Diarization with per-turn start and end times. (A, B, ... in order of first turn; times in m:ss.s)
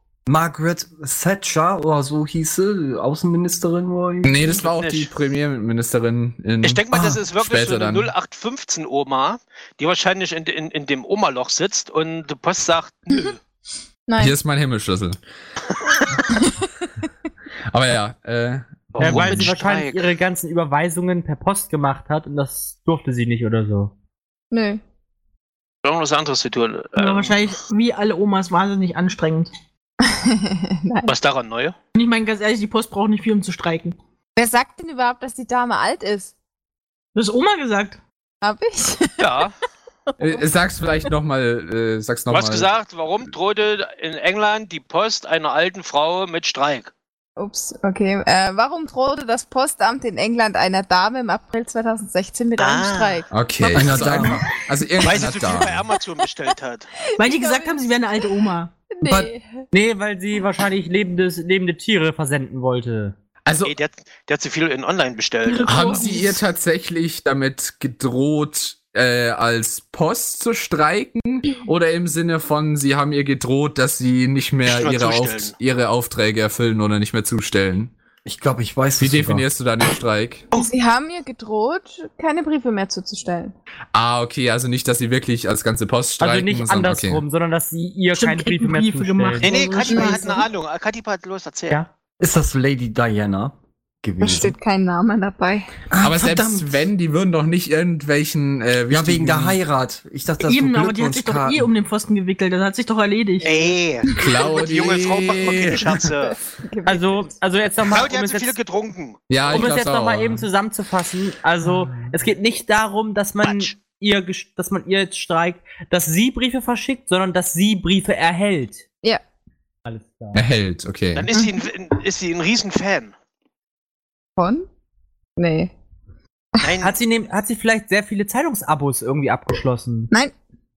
0:00.3-0:04.4 A
0:04.2-0:08.1 B
0:04.5-0:05.1 C
0:06.6-0:13.4 C
0:14.1-0:14.4 D
0:14.2-0:15.2 B
0:17.7-0:19.6 B
0:19.0-0:20.1 C
0:19.0-0:23.9 E
0:24.5-0:24.8 D
0:25.8-0:27.5 C
0:27.0-0:29.5 F
0:30.0-0:31.1 D
0:31.1-0:31.8 C
0:32.0-0:34.0 F
0:34.4-0:36.3 D
0:37.2-0:38.0 F
0:38.4-0:39.4 D
0:39.2-0:39.5 C
0:40.2-0:42.7 B
0:42.3-0:46.9 C
0:47.4-0:53.3 D
0:52.6-0:53.2 C
0:53.3-0:55.8 B
0:53.7-0:54.4 A
0:55.0-0:56.9 C
0:57.2-0:58.7 F
0:57.2-0:58.3 D
0:58.9-0:59.6 D
0:59.1-1:03.2 E
1:03.5-1:03.8 B
1:03.6-1:06.1 C
1:05.5-1:06.4 F
1:05.6-1:17.9 B
1:14.7-1:15.6 C
1:18.2-1:19.5 A
1:19.0-1:20.5 B
1:20.5-1:23.6 D
1:23.9-1:27.2 B
1:26.2-1:29.5 E
1:28.2-1:30.5 F
1:29.4-1:31.8 C
1:29.9-1:30.3 D
1:32.2-1:34.6 A
1:34.2-1:35.8 D
1:35.9-1:36.8 A
1:36.0-1:39.6 B
1:38.9-1:41.7 A
1:40.4-1:43.8 F
1:43.4-1:46.4 C
1:44.1-1:46.1 B
1:46.0-1:47.3 D
1:46.9-1:48.6 E
1:47.8-1:49.7 C
1:49.3-1:50.4 B
1:49.5-1:58.8 E
1:53.4-1:53.8 C
1:59.8-2:00.4 E
2:00.3-2:01.3 B
2:01.2-2:03.1 C
2:04.4-2:04.7 D
2:05.4-2:05.7 D
2:06.6-2:07.0 C
2:06.8-2:10.1 E